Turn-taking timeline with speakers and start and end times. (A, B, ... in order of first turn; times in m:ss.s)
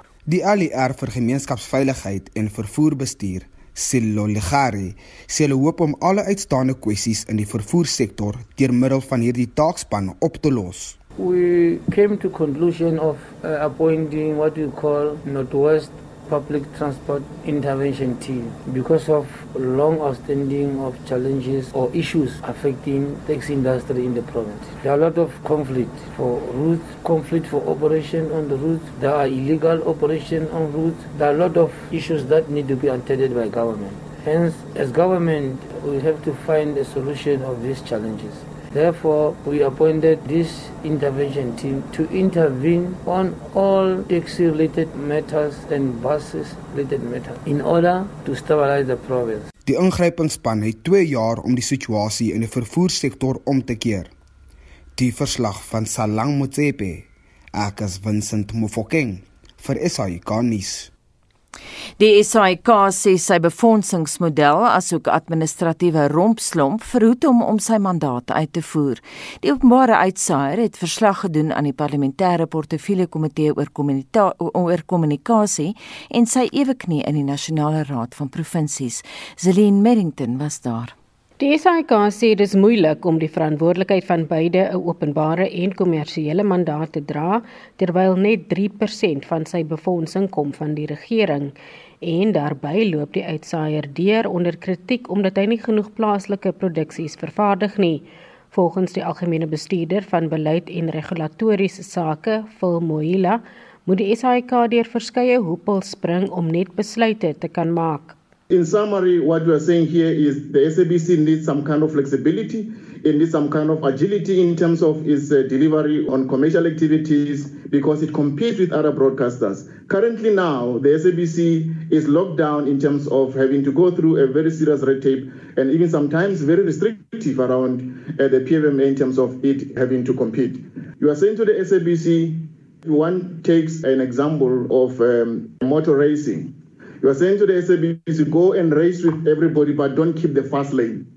0:00.3-0:11.0 A
0:11.2-0:49.5 B
0:49.6-0:54.1 A
0:55.0-1:00.9 A
1:02.0-1:20.9 C
1:21.4-1:48.2 D
1:48.5-2:21.1 E